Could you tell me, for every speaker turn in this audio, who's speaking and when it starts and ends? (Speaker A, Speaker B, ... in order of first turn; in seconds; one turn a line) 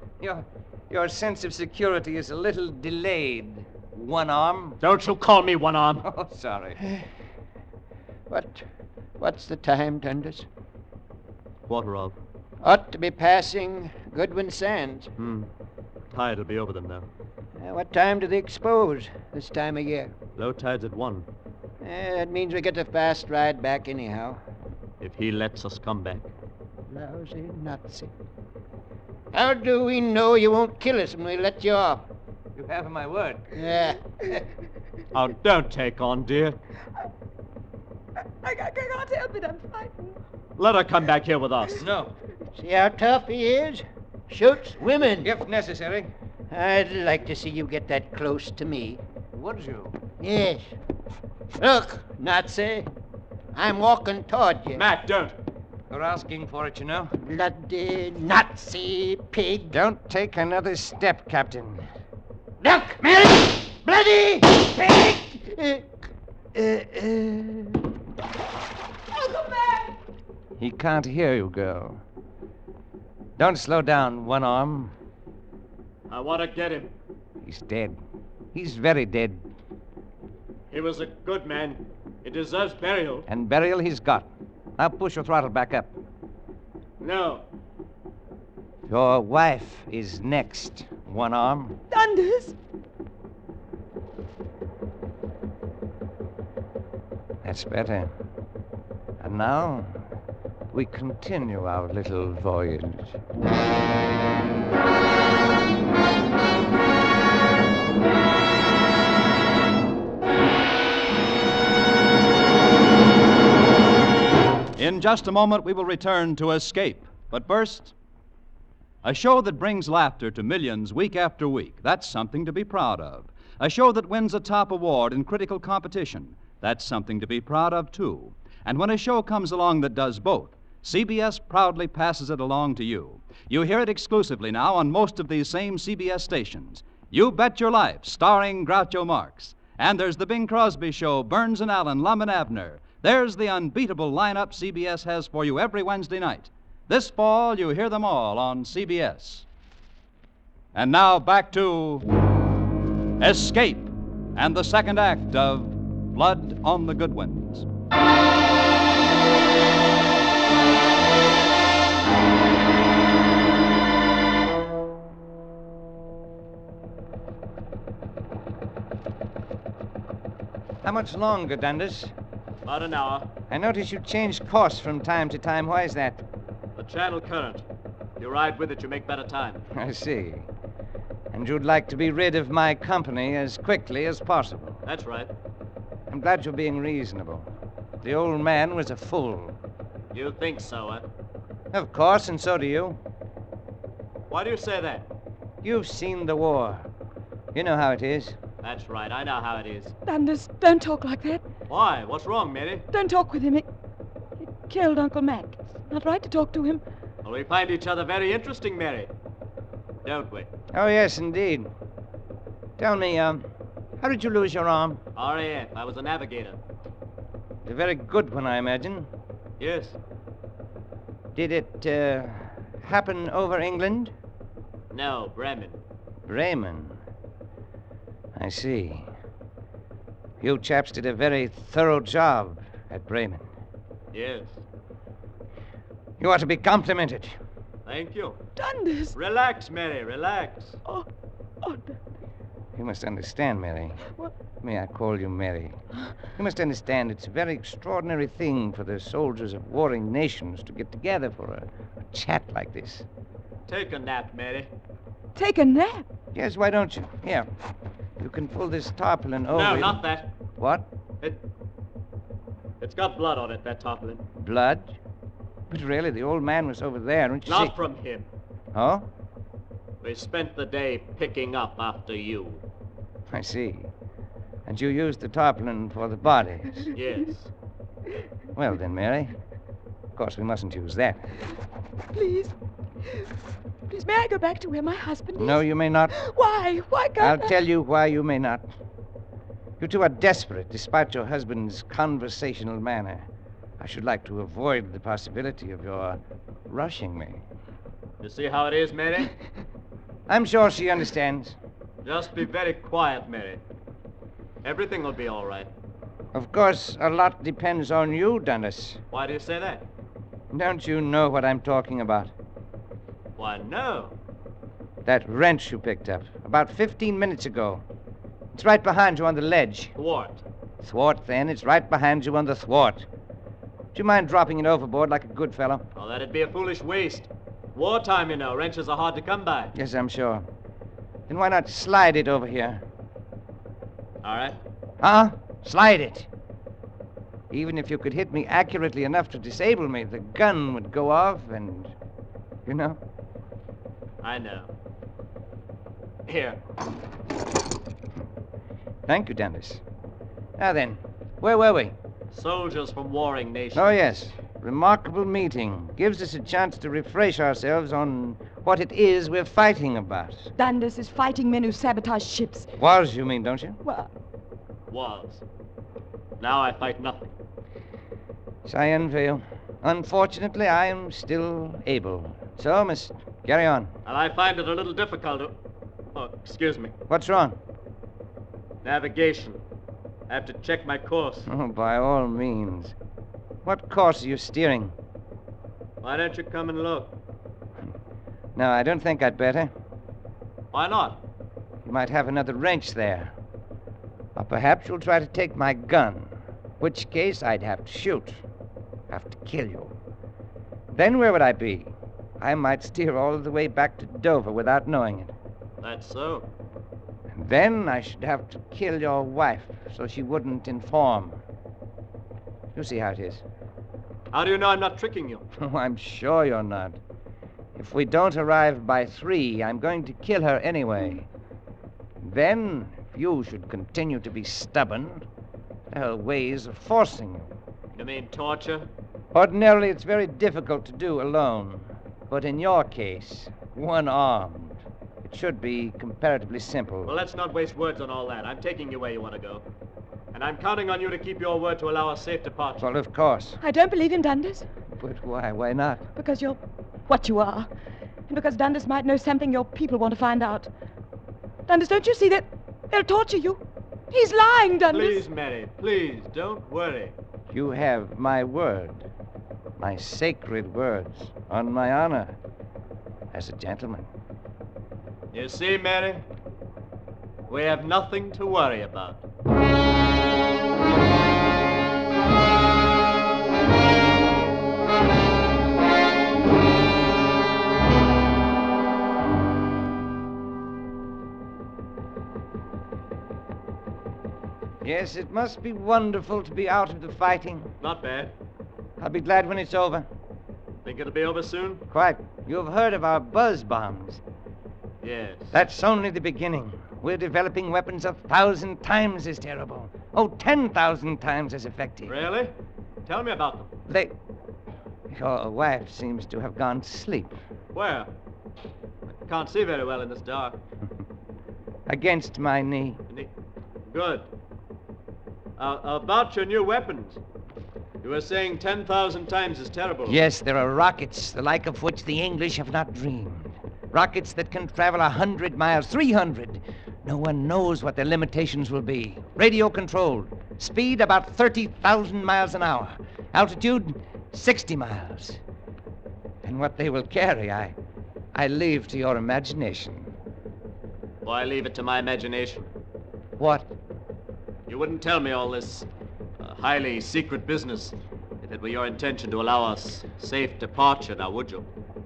Speaker A: 0.2-4.8
Speaker B: 4.8-6.1
Speaker A: 6.0-6.8
Speaker C: 8.3-8.6
Speaker C: 9.2-10.4
Speaker B: 11.7-12.2
Speaker C: 12.6-15.1
Speaker B: 15.2-15.5
Speaker B: 16.1-17.0
Speaker C: 17.6-20.1
Speaker B: 20.4-21.2
Speaker C: 21.8-24.4
Speaker B: 25.0-26.3
Speaker C: 26.9-28.1
Speaker C: 29.3-32.1
Speaker A: 32.5-33.5
Speaker C: 33.5-34.4
Speaker B: 35.1-36.6
Speaker D: 38.4-40.2
Speaker B: 40.6-41.8
Speaker A: 41.8-42.1
Speaker C: 42.5-45.3
Speaker A: 45.2-46.1
Speaker C: 46.5-49.0
Speaker A: 49.3-50.0
Speaker C: 50.2-50.6
Speaker C: 51.6-52.9
Speaker C: 53.5-54.8
Speaker B: 54.7-55.3
Speaker A: 55.9-57.1
Speaker C: 57.2-59.8
Speaker A: 59.7-61.9
Speaker C: 62.6-65.9
Speaker C: 66.5-67.8
Speaker A: 70.6-72.0
Speaker A: 73.4-74.9
Speaker B: 76.1-76.9
Speaker A: 77.4-78.0
Speaker A: 78.5-79.4
Speaker B: 80.7-83.3
Speaker A: 83.3-85.9
Speaker B: 87.0-87.4
Speaker A: 88.9-91.8
Speaker D: 91.9-92.5
Speaker A: 97.4-98.1
Speaker A: 99.2-100.0
Speaker A: 100.7-103.1
Speaker E: 114.8-117.9
Speaker E: 119.0-149.4
Speaker E: 150.7-152.1
Speaker E: 153.2-157.7
Speaker A: 170.8-172.1
Speaker B: 172.7-173.3
Speaker A: 173.5-176.2
Speaker B: 176.8-177.6
Speaker B: 178.2-179.6
Speaker A: 179.7-180.5
Speaker A: 181.3-184.8
Speaker B: 184.8-185.3
Speaker A: 186.1-187.5
Speaker A: 188.0-189.6
Speaker B: 190.1-191.0
Speaker A: 191.7-193.0
Speaker B: 194.3-195.1
Speaker A: 195.6-196.9
Speaker A: 197.5-198.4
Speaker B: 198.6-199.9
Speaker D: 200.1-201.4
Speaker B: 201.7-202.8
Speaker D: 202.9-203.7
Speaker D: 204.7-206.8
Speaker B: 207.2-209.1
Speaker B: 210.0-210.5
Speaker A: 210.7-211.7
Speaker A: 212.8-213.5
Speaker A: 214.0-215.0
Speaker B: 215.2-216.6
Speaker A: 217.6-219.1
Speaker B: 219.6-219.9
Speaker A: 221.3-224.1
Speaker B: 224.9-225.8
Speaker A: 226.2-227.0
Speaker A: 228.3-229.1
Speaker A: 230.4-233.4
Speaker B: 234.1-234.6
Speaker A: 236.2-237.3
Speaker B: 237.8-238.4
Speaker D: 238.6-239.1
Speaker B: 239.1-240.8
Speaker D: 241.6-242.0
Speaker A: 242.8-244.0
Speaker A: 244.6-245.8
Speaker A: 246.3-253.1
Speaker B: 253.7-254.7
Speaker D: 255.3-256.0
Speaker A: 256.3-257.5
Speaker A: 258.2-260.0
Speaker B: 259.5-260.3
Speaker A: 260.6-260.9
Speaker B: 262.8-264.2
Speaker A: 264.4-265.0
Speaker A: 265.7-267.7
Speaker B: 267.4-268.3
Speaker A: 268.7-269.1
Speaker B: 270.0-272.6
Speaker A: 273.3-273.9
Speaker A: 274.6-276.9
Speaker B: 276.9-277.5
Speaker A: 278.5-279.4
Speaker A: 280.1-281.2
Speaker D: 282.1-282.5
Speaker D: 283.9-287.5
Speaker A: 285.4-286.1
Speaker A: 287.2-288.6
Speaker A: 289.8-293.3
Speaker A: 293.8-297.4
Speaker B: 298.2-299.3
Speaker A: 300.3-301.6
Speaker B: 302.0-303.6
Speaker B: 304.6-305.7
Speaker A: 306.3-309.0
Speaker B: 309.1-309.8
Speaker A: 310.5-312.3
Speaker B: 313.4-314.1
Speaker A: 315.0-317.8
Speaker A: 318.5-319.9
Speaker B: 319.9-320.4
Speaker A: 320.8-323.1
Speaker A: 323.9-325.8
Speaker B: 325.9-329.7
Speaker A: 329.7-330.4
Speaker A: 331.3-332.8
Speaker B: 334.2-334.6
Speaker A: 335.0-336.3
Speaker A: 337.5-341.9
Speaker A: 342.6-343.0
Speaker B: 344.2-344.7
Speaker B: 346.3-346.6
Speaker A: 349.1-349.8
Speaker A: 350.6-351.9
Speaker B: 352.3-353.9
Speaker A: 353.7-360.5
Speaker D: 360.6-362.7
Speaker A: 362.8-363.8
Speaker D: 363.8-364.1
Speaker B: 364.9-365.4
Speaker B: 366.4-367.3
Speaker A: 368.6-373.9
Speaker B: 374.1-375.5
Speaker B: 376.1-376.9
Speaker A: 377.1-377.6
Speaker B: 378.8-379.6
Speaker B: 380.3-381.5
Speaker A: 381.5-382.9
Speaker A: 383.6-384.9
Speaker B: 386.0-387.1
Speaker A: 388.5-389.7
Speaker B: 390.7-391.2
Speaker A: 391.8-393.3
Speaker A: 394.3-398.4
Speaker A: 399.1-399.9
Speaker A: 400.9-405.3
Speaker B: 405.8-406.5
Speaker A: 407.3-411.4
Speaker A: 412.7-413.4
Speaker B: 414.3-415.4
Speaker A: 415.6-417.0
Speaker A: 417.7-421.2
Speaker A: 422.2-425.2
Speaker A: 425.9-427.5
Speaker B: 427.9-428.9
Speaker A: 429.3-437.2
Speaker B: 437.1-439.6
Speaker B: 440.3-442.8
Speaker A: 442.8-443.6
Speaker D: 443.6-444.7
Speaker A: 445.0-446.0
Speaker D: 446.1-447.7
Speaker D: 448.3-450.7
Speaker D: 451.7-455.2
Speaker B: 454.9-457.1
Speaker A: 457.5-459.0
Speaker A: 459.8-462.4
Speaker A: 463.3-464.1
Speaker B: 465.3-466.2
Speaker B: 467.5-469.2
Speaker A: 484.8-487.7
Speaker B: 487.8-488.3
Speaker A: 489.0-490.1
Speaker B: 490.8-491.8
Speaker A: 491.9-494.2
Speaker B: 495.0-495.5
Speaker A: 495.5-502.1
Speaker B: 502.1-502.5
Speaker B: 503.1-503.7
Speaker A: 503.9-504.1
Speaker A: 505.1-507.3
Speaker B: 507.7-508.1
Speaker B: 509.1-510.6
Speaker A: 511.9-513.0
Speaker B: 513.9-514.2
Speaker B: 515.6-517.2
Speaker B: 518.0-520.2
Speaker A: 520.0-535.4
Speaker A: 536.4-537.8
Speaker A: 538.3-540.1
Speaker B: 541.2-542.7
Speaker A: 543.4-543.7
Speaker B: 544.7-545.9
Speaker B: 546.4-551.7